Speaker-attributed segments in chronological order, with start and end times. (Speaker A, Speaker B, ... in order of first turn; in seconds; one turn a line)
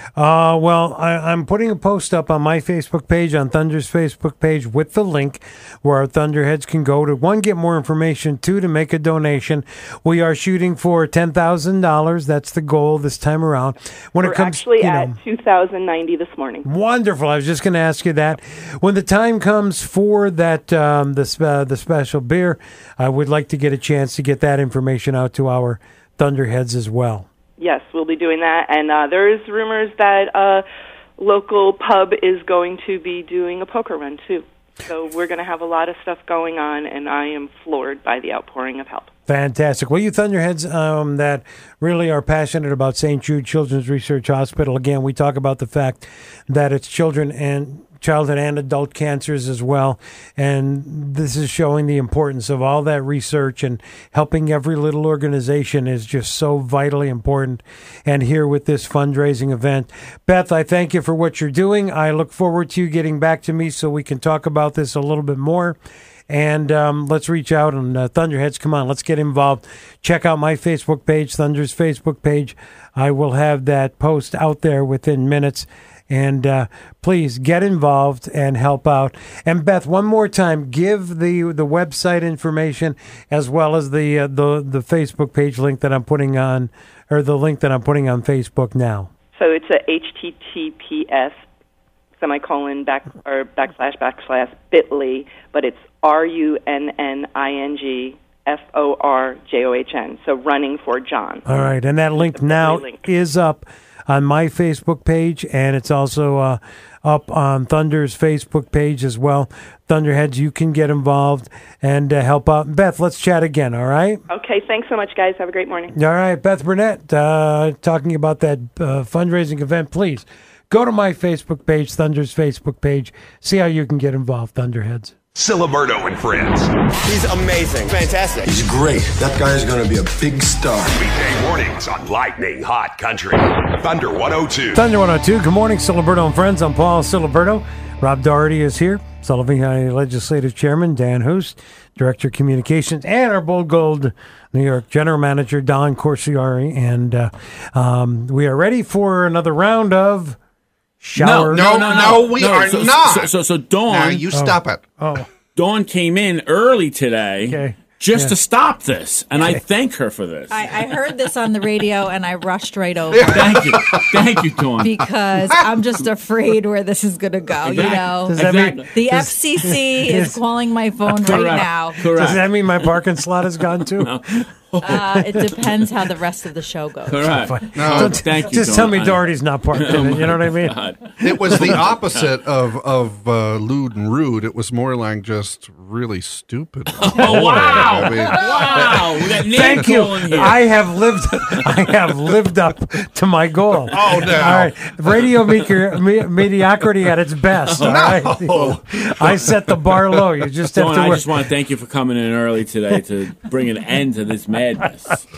Speaker A: 0.2-15.2
Speaker B: 14.2-16.7
Speaker A: 16.6-27.3
Speaker B: 27.6-30.6
Speaker B: 31.2-39.1
Speaker A: 39.3-65.8
Speaker A: 66.3-89.1
Speaker B: 89.3-91.4
Speaker B: 92.2-103.0
Speaker A: 101.5-114.2
Speaker B: 114.3-115.9
Speaker A: 115.9-125.1
Speaker C: 125.3-127.1
Speaker D: 128.4-130.9
Speaker C: 130.8-134.8
Speaker A: 134.7-150.4
Speaker A: 151.0-152.0
Speaker E: 151.2-154.3
Speaker F: 151.5-153.3
Speaker F: 153.9-154.8
Speaker A: 154.3-155.3
Speaker E: 155.6-160.7
Speaker A: 157.5-158.3
Speaker G: 160.5-163.7
Speaker F: 163.1-164.3
Speaker E: 163.2-165.1
Speaker G: 164.8-172.0
Speaker E: 167.6-168.9
Speaker A: 168.3-170.4
Speaker E: 171.2-172.9
Speaker A: 171.2-174.1
Speaker E: 173.9-175.6
Speaker G: 174.8-177.5
Speaker A: 174.9-175.4
Speaker E: 177.1-182.4
Speaker A: 177.4-180.8
Speaker F: 177.7-178.2
Speaker F: 181.2-189.2
Speaker E: 187.0-190.8
Speaker A: 189.5-201.2
Speaker F: 193.9-194.7
Speaker E: 193.9-194.3
Speaker E: 197.7-198.8
Speaker F: 197.8-199.9
Speaker E: 200.7-205.3